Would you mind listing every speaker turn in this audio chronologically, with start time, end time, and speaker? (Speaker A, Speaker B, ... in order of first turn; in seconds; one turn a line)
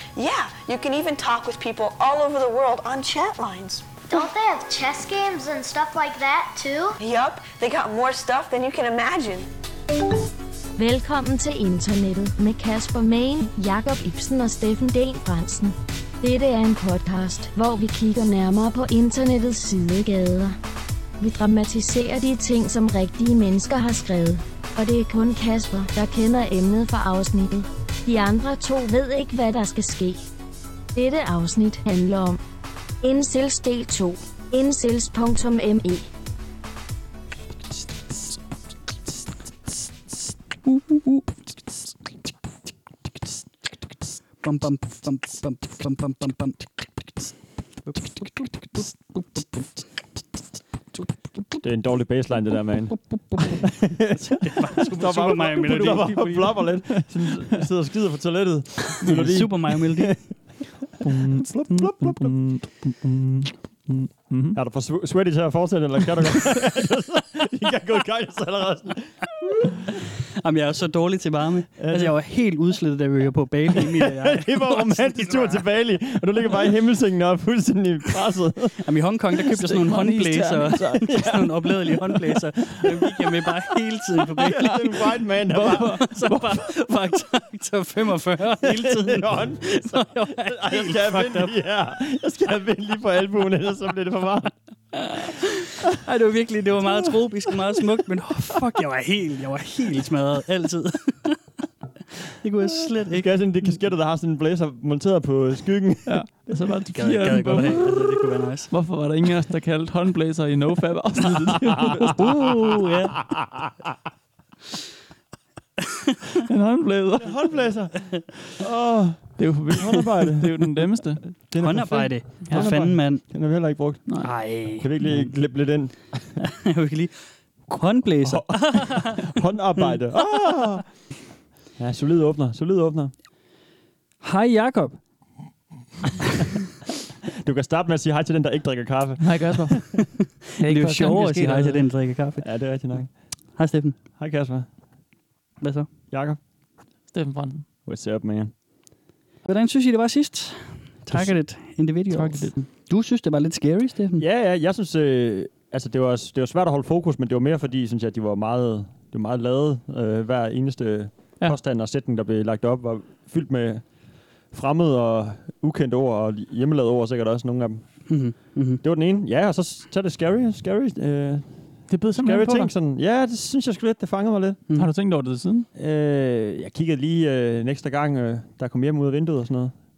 Speaker A: 0.1-4.1
Speaker B: 4.1-6.9
Speaker A: 7.0-9.5
Speaker C: 10.8-20.6
Speaker C: 21.2-30.2
Speaker C: 30.9-32.4
Speaker C: 33.0-36.0
Speaker D: 44.4-46.9
Speaker D: 47.8-49.7
Speaker E: 51.6-60.5
Speaker D: 54.1-56.3
Speaker F: 55.8-57.4
Speaker D: 59.0-60.2
Speaker F: 61.0-64.6
Speaker E: 61.4-62.3
Speaker E: 64.5-69.7
Speaker D: 69.9-75.6
Speaker E: 71.8-72.1
Speaker E: 73.8-78.8
Speaker D: 78.8-91.5
Speaker F: 79.5-81.0
Speaker E: 80.7-81.7
Speaker E: 84.4-86.0
Speaker F: 85.7-86.6
Speaker E: 88.7-94.5
Speaker D: 94.9-101.4
Speaker D: 102.4-103.2
Speaker E: 103.1-106.4
Speaker F: 106.0-108.2
Speaker D: 106.9-108.7
Speaker F: 108.7-112.5
Speaker D: 112.2-113.2
Speaker F: 116.4-117.6
Speaker E: 117.2-120.5
Speaker F: 119.4-121.3
Speaker E: 121.3-126.3
Speaker D: 121.6-123.2
Speaker F: 122.5-122.9
Speaker F: 124.1-124.3
Speaker D: 124.2-125.7
Speaker D: 126.4-127.1
Speaker D: 127.7-129.3
Speaker E: 128.3-131.0
Speaker E: 131.8-133.1
Speaker D: 134.2-135.0
Speaker E: 137.4-139.7
Speaker F: 139.2-141.9
Speaker D: 140.6-142.4
Speaker E: 142.4-143.1
Speaker D: 143.6-144.0
Speaker E: 144.2-144.7
Speaker D: 145.6-145.9
Speaker E: 146.1-146.4
Speaker F: 147.1-147.7
Speaker E: 147.8-148.5
Speaker D: 149.4-154.2
Speaker F: 152.1-152.5
Speaker E: 154.2-168.1
Speaker D: 168.1-168.8
Speaker E: 168.8-174.6
Speaker F: 171.9-172.7
Speaker D: 174.7-174.9
Speaker F: 174.7-175.7
Speaker E: 175.7-179.7